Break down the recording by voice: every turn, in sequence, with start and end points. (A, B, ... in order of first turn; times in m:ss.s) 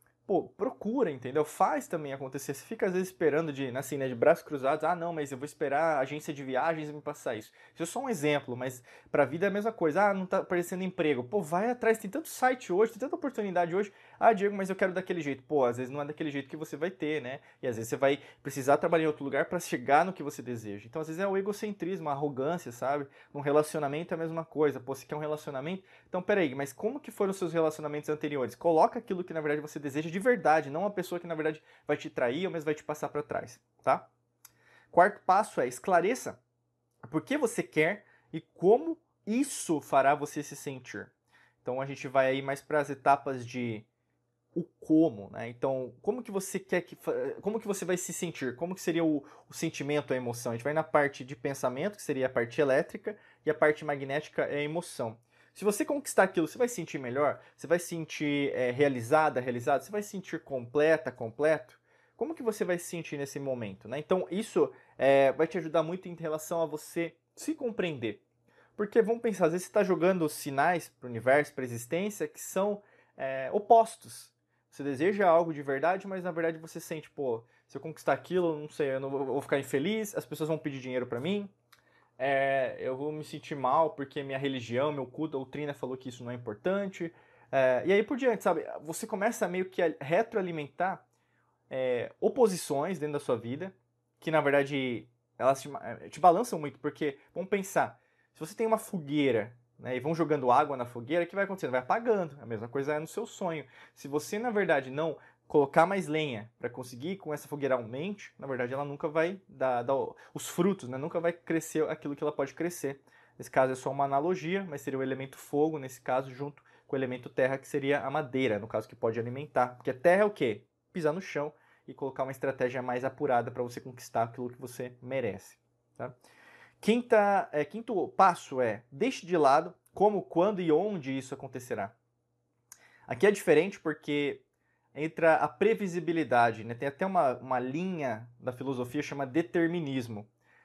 0:00.3-0:34.1 A
0:34.9-0:36.4 A
0:37.0-0:43.9 A
0:44.5-1:08.2 A
1:08.8-1:21.5 A
1:22.2-1:31.0 A
1:31.7-2:06.2 A
2:06.8-2:12.0 A
2:13.1-2:20.3 A